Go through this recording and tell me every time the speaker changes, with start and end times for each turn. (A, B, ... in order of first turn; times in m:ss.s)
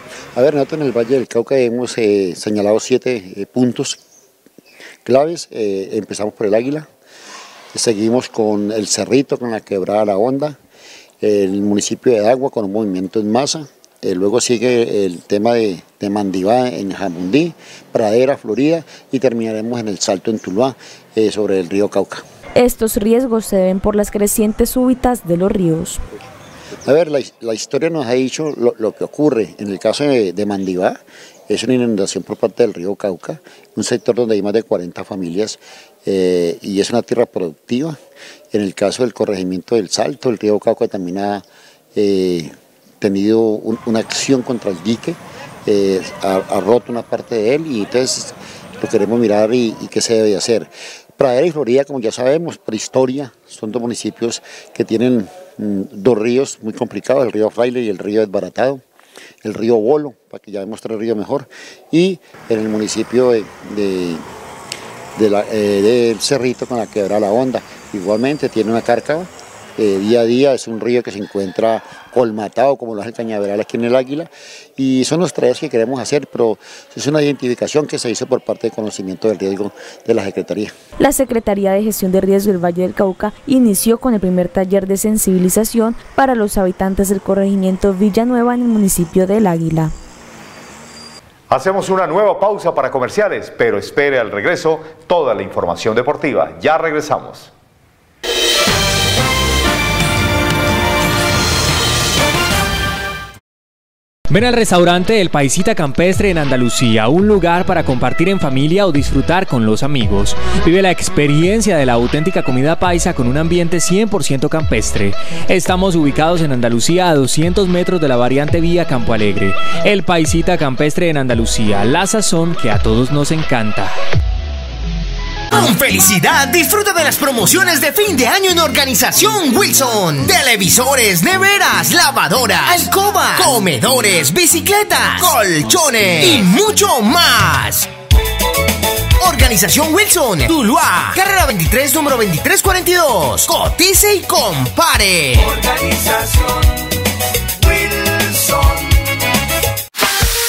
0:00.4-0:04.0 A
0:05.0-0:06.9 A
0:07.7-0:10.6 A
0:11.2-0:22.2 A
0:22.6-0:26.0 B
0:26.8-0:38.0 A
0:38.5-0:41.4 A
0:42.0-0:58.8 A
0:59.4-1:04.2 A
1:05.2-1:20.7 A
1:21.0-1:29.9 B
1:31.5-1:37.5 C
1:44.3-2:03.9 D
2:05.5-2:17.9 E
2:19.2-2:25.6 E